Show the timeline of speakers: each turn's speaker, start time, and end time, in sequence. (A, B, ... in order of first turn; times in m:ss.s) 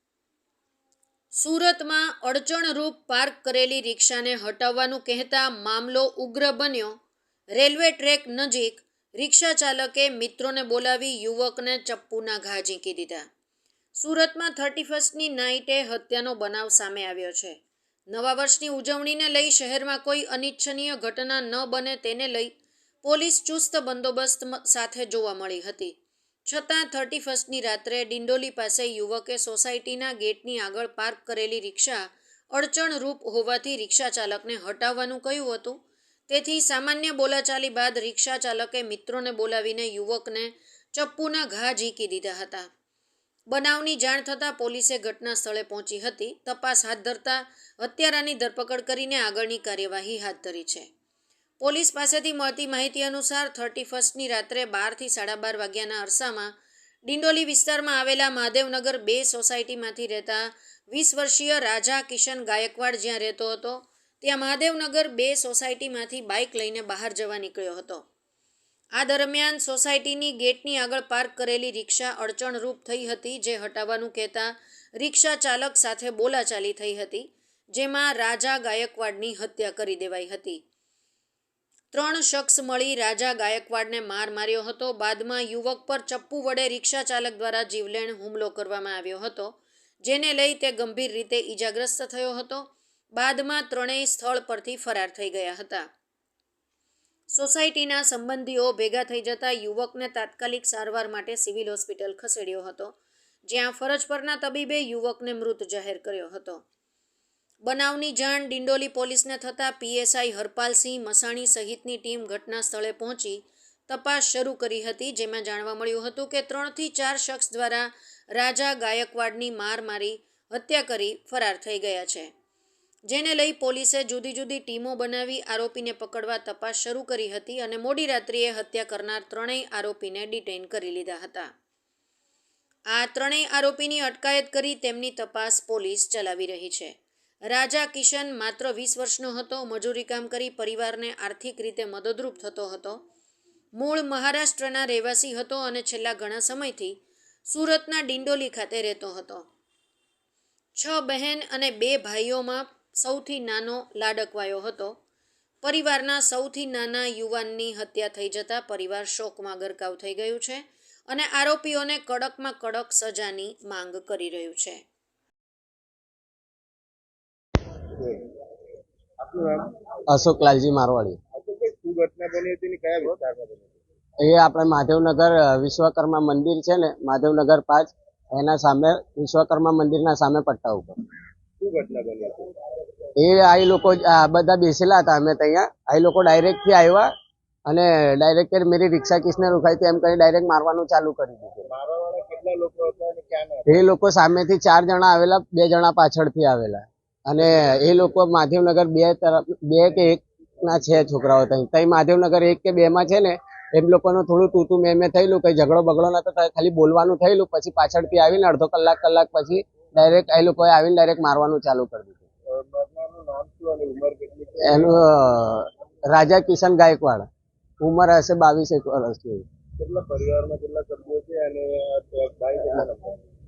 0:01.4-0:07.0 A
0:07.5-0:13.3 A
0:14.0-0:17.6 A
0:18.1-0:22.5 A
0:23.0-0:26.0 A
0:26.5-0:42.7 A
0:43.5-0:50.9 A
0:51.6-0:56.5 A
0:57.0-1:08.0 A
1:09.0-1:20.6 A
1:21.9-1:35.9 A
1:37.3-1:46.6 A
1:47.7-2:02.3 A
2:03.1-2:11.5 A
2:12.9-2:23.0 A
2:23.8-2:29.5 A
2:30.8-2:35.0 A
2:35.6-2:44.8 A
2:48.0-2:48.3 B
2:49.2-2:49.7 B
2:50.1-2:51.2 C
2:51.3-2:53.8 B
2:54.2-3:00.9 C
3:01.6-3:02.5 B
3:03.2-3:07.1 C
3:07.7-3:11.7 C
3:11.7-3:13.8 B
3:13.7-3:32.2 C
3:32.5-3:35.0 B
3:34.6-3:37.3 C
3:37.8-3:39.4 C
3:39.8-3:43.2 B